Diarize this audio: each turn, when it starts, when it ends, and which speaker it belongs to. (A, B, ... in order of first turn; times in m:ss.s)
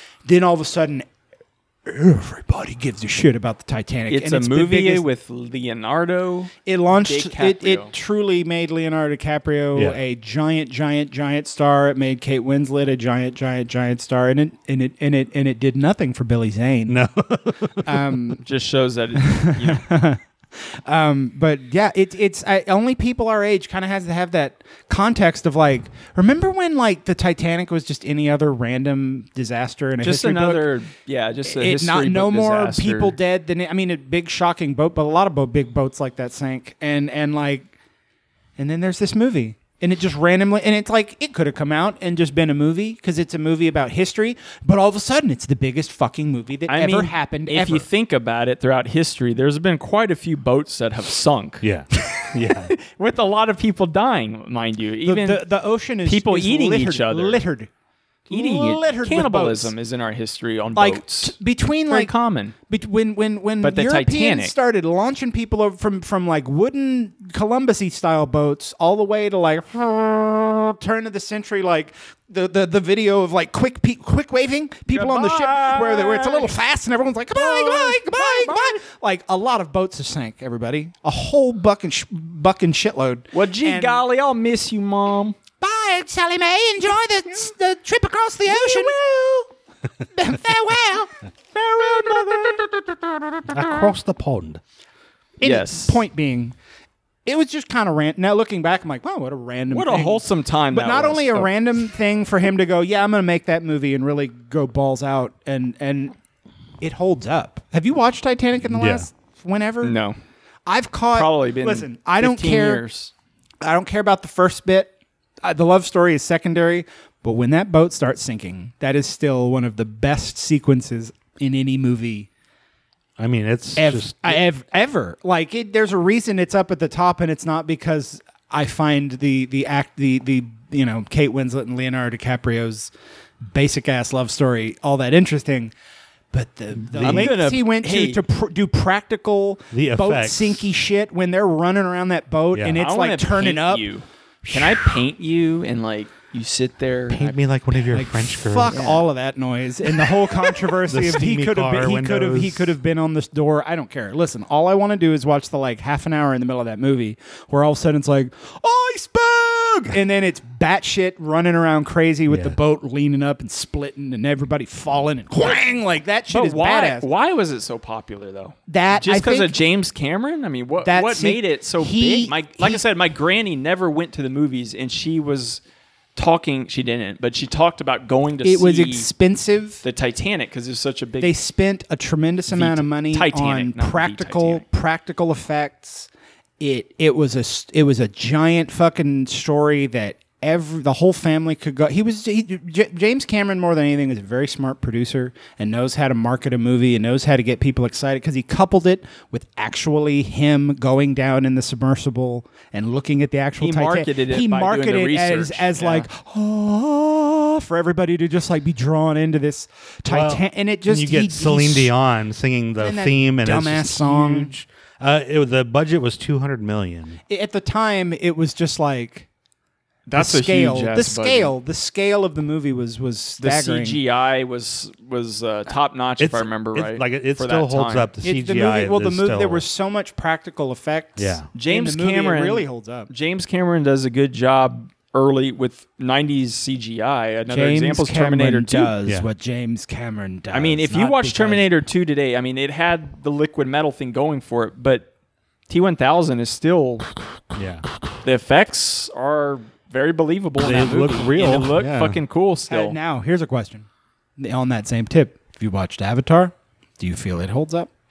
0:00.2-0:01.1 A
0:01.9-0:05.1 A
0:04.1-0:07.9 B
0:06.7-0:17.0 A
0:09.7-0:10.0 C
0:16.9-0:18.0 C
0:17.8-0:18.4 A
0:18.4-0:19.8 B
0:19.2-0:20.2 A
0:20.9-0:30.7 A
0:30.0-0:33.2 B
0:31.4-0:37.7 A
0:38.6-0:47.9 A
0:46.7-0:55.5 B
0:51.6-0:52.7 C
0:55.0-0:57.7 A
0:56.0-0:57.4 B
0:58.3-0:59.7 A
0:58.3-1:01.4 B
1:00.7-1:02.1 A
1:01.9-1:02.6 B
1:02.7-1:24.0 A
1:03.6-1:04.6 B
1:14.9-1:16.6 B
1:17.3-1:18.8 B
1:23.3-1:25.4 B
1:25.6-1:29.5 A
1:30.1-1:33.6 A
1:33.5-1:34.6 C
1:35.4-1:36.6 A
1:35.4-1:36.0 B
1:37.3-1:46.1 A
1:39.7-1:41.5 B
1:46.8-1:50.0 A
1:48.6-1:49.1 C
1:49.8-1:50.2 B
1:50.7-1:52.8 A
1:51.1-1:53.1 B
1:53.6-1:54.9 A
1:55.4-2:02.3 A
2:03.2-2:04.4 C
2:03.8-2:12.9 A
2:13.4-2:15.7 A
2:16.3-2:23.9 A
2:16.7-2:17.4 C
2:17.0-2:18.2 B
2:19.7-2:20.7 C
2:22.5-2:22.8 C
2:22.8-2:27.4 B
2:27.1-2:28.8 C
2:27.9-2:47.1 A
2:28.7-2:29.0 B
2:30.9-2:32.8 C
2:42.3-2:42.6 C
2:46.3-2:55.6 B
2:48.7-2:49.6 A
2:50.8-2:52.8 A
2:56.2-2:59.1 B
2:58.4-2:59.8 A
2:59.8-3:01.3 B
3:01.2-3:06.1 A
3:02.5-3:04.6 B
3:06.6-3:31.9 A
3:23.6-3:26.1 B
3:30.1-3:37.2 C
3:32.8-3:34.5 A
3:37.3-3:39.3 A
3:40.1-3:41.5 B
3:40.1-3:44.0 A
3:43.4-3:48.1 B
3:46.2-3:49.7 C
3:48.2-3:53.1 A
3:51.2-3:51.5 C
3:51.5-3:58.9 B
3:57.5-4:01.7 A
4:00.5-4:05.1 B
4:05.7-4:07.1 B
4:07.6-4:07.8 C
4:08.2-4:13.0 B
4:10.6-4:12.2 C
4:12.7-4:13.9 A
4:14.4-4:17.9 A